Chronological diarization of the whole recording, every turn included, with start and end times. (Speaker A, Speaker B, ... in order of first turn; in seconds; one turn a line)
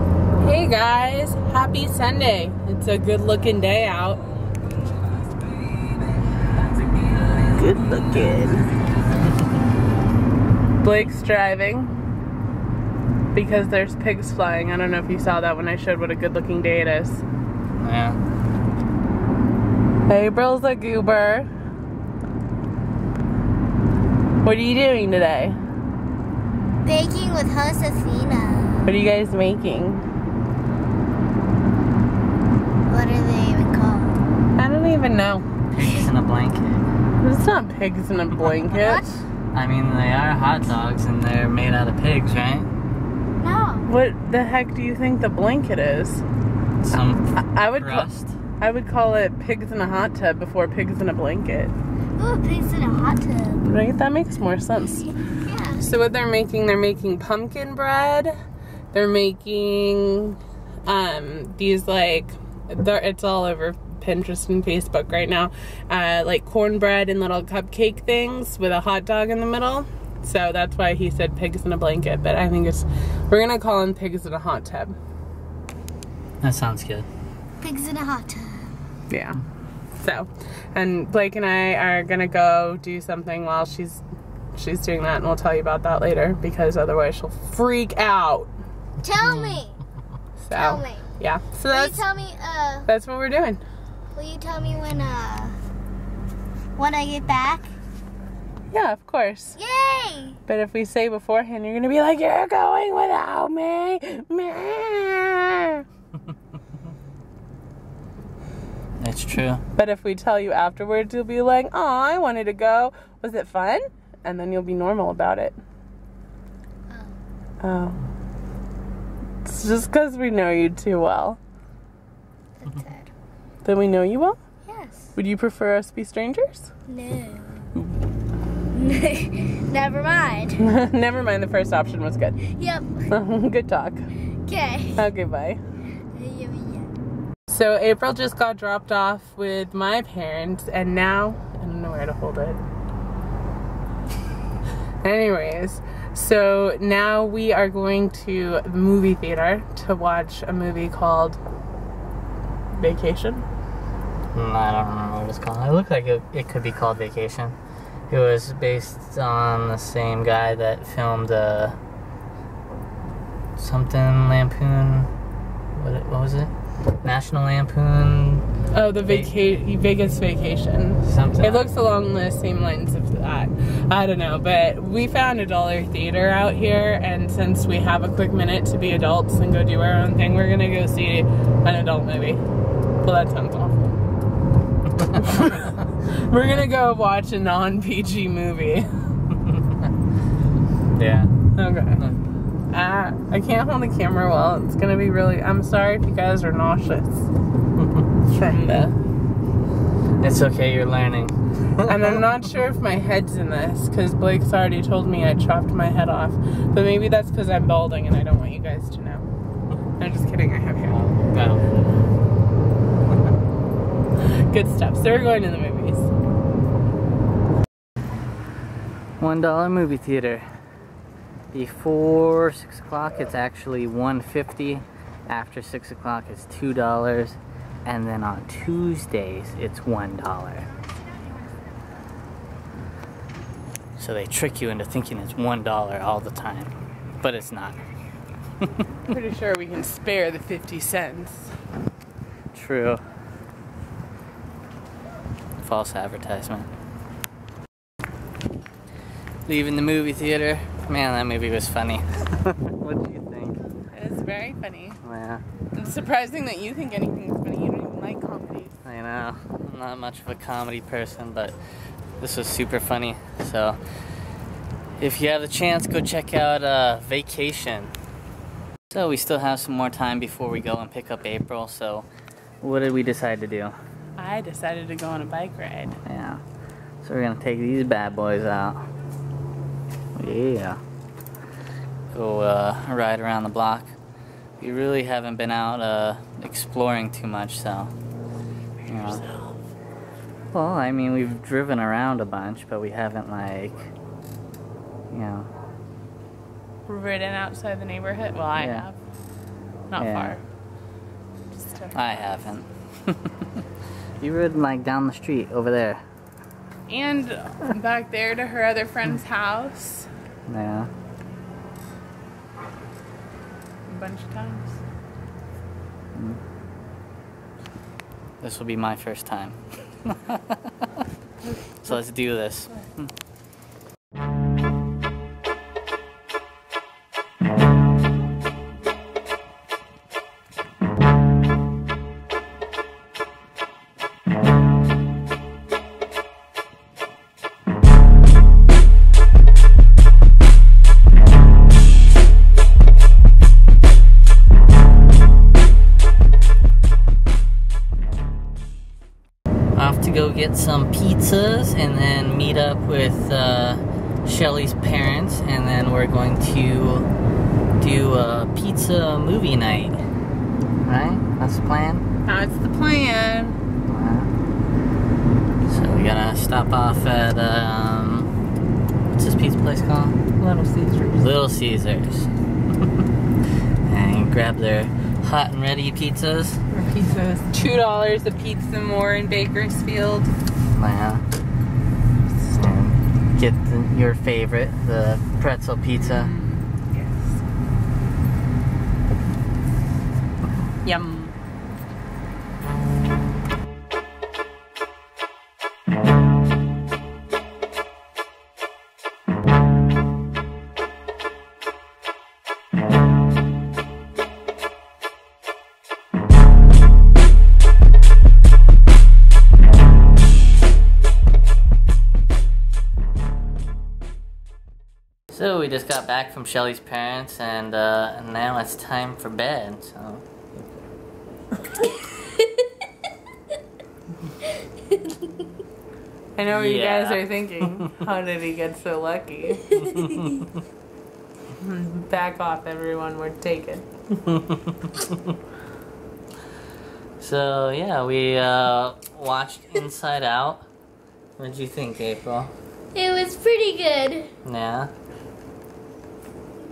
Speaker A: 0.4-4.2
Speaker A: 7.6-8.6
Speaker A: 10.8-11.9
Speaker A: 13.3-17.2
Speaker B: 17.8-18.2
Speaker A: 20.1-21.5
Speaker A: 24.4-25.6
Speaker C: 26.8-28.8
Speaker A: 28.8-30.0
Speaker C: 32.9-34.2
Speaker A: 34.6-35.5
Speaker B: 35.7-36.8
Speaker A: 37.2-39.0
Speaker B: 39.0-42.7
Speaker C: 43.4-43.9
Speaker A: 43.9-46.2
Speaker B: 46.8-48.3
Speaker A: 47.3-48.1
Speaker A: 48.6-51.7
Speaker C: 52.2-53.6
Speaker A: 53.6-55.1
Speaker C: 55.5-55.9
Speaker A: 55.8-58.3
Speaker A: 58.9-75.0
Speaker B: 76.4-77.1
Speaker C: 77.6-78.7
Speaker A: 79.1-79.4
Speaker A: 80.0-84.0
Speaker A: 84.5-88.5
Speaker C: 89.0-89.8
Speaker B: 89.2-89.6
Speaker A: 90.4-92.0
Speaker C: 90.5-91.1
Speaker C: 91.7-92.9
Speaker A: 92.9-93.6
Speaker C: 94.2-95.6
Speaker C: 96.8-97.7
Speaker A: 98.7-99.6
Speaker C: 99.6-100.4
Speaker A: 100.5-105.8
Speaker B: 109.0-109.6
Speaker A: 109.8-115.6
Speaker C: 116.9-117.2
Speaker A: 117.6-118.0
Speaker A: 119.4-121.4
Speaker C: 122.6-123.1
Speaker A: 123.6-124.4
Speaker C: 124.7-125.1
Speaker A: 125.2-126.7
Speaker C: 126.9-127.7
Speaker C: 128.7-130.6
Speaker A: 130.6-132.4
Speaker C: 132.5-133.1
Speaker A: 133.1-134.0
Speaker C: 134.4-135.1
Speaker A: 135.0-135.6
Speaker C: 136.1-136.9
Speaker A: 137.5-142.6
Speaker A: 145.0-151.4
Speaker A: 152.8-153.4
Speaker B: 154.3-157.6
Speaker B: 158.1-161.8
Speaker B: 163.6-165.1
Speaker B: 165.8-166.5
Speaker B: 167.0-168.5
Speaker A: 168.7-182.4
Speaker B: 169.0-169.3
Speaker B: 171.0-171.7
Speaker A: 183.0-184.0
Speaker A: 185.2-188.9
Speaker B: 190.9-191.3
Speaker A: 191.5-192.0
Speaker B: 191.9-192.2
Speaker A: 192.7-197.3
Speaker A: 198.2-198.9
Speaker B: 200.2-201.9
Speaker A: 201.8-209.2
Speaker A: 210.0-211.0
Speaker B: 210.9-212.0
Speaker A: 214.5-216.1
Speaker B: 219.2-220.4
Speaker B: 221.5-230.7
Speaker B: 234.0-237.8
Speaker A: 239.1-241.5
Speaker B: 242.5-243.0
Speaker B: 245.6-246.7
Speaker B: 249.4-253.6
Speaker A: 253.9-255.0
Speaker B: 255.0-255.4
Speaker A: 255.7-258.7
Speaker B: 258.9-261.6
Speaker B: 262.2-263.8
Speaker B: 265.0-267.9
Speaker B: 268.9-272.1
Speaker B: 272.6-273.8
Speaker A: 274.2-276.0
Speaker B: 276.1-276.4
Speaker B: 277.0-278.9
Speaker B: 280.1-280.8
Speaker B: 282.1-283.9
Speaker B: 284.6-287.9
Speaker B: 288.9-289.2
Speaker A: 289.0-289.5
Speaker B: 290.5-293.9
Speaker B: 295.1-295.5
Speaker A: 296.9-298.9
Speaker B: 298.6-298.9
Speaker A: 299.9-300.4
Speaker B: 300.0-300.4
Speaker A: 301.5-302.4
Speaker B: 301.9-303.6
Speaker B: 304.2-306.0
Speaker A: 306.9-310.1
Speaker B: 310.5-310.9
Speaker A: 313.9-314.8
Speaker B: 316.1-316.4
Speaker B: 318.4-320.7
Speaker A: 321.4-322.0
Speaker B: 321.8-323.1
Speaker B: 349.8-357.1
Speaker B: 357.8-360.0
Speaker B: 360.8-362.1
Speaker A: 362.2-363.6
Speaker B: 363.9-364.3
Speaker B: 365.7-368.3
Speaker B: 369.1-370.4
Speaker A: 370.4-371.1
Speaker B: 371.0-372.3
Speaker B: 373.8-376.6
Speaker A: 376.7-380.3
Speaker B: 380.8-381.2
Speaker B: 382.5-386.3
Speaker A: 386.0-387.2
Speaker A: 390.8-391.3
Speaker B: 415.3-420.8
Speaker A: 426.4-429.8
Speaker B: 426.5-427.9
Speaker C: 429.9-430.3
Speaker B: 430.0-430.4
Speaker A: 431.6-433.9
Speaker B: 434.1-435.4
Speaker B: 437.2-440.6
Speaker B: 441.4-442.5
Speaker C: 442.9-444.3
Speaker B: 444.4-444.9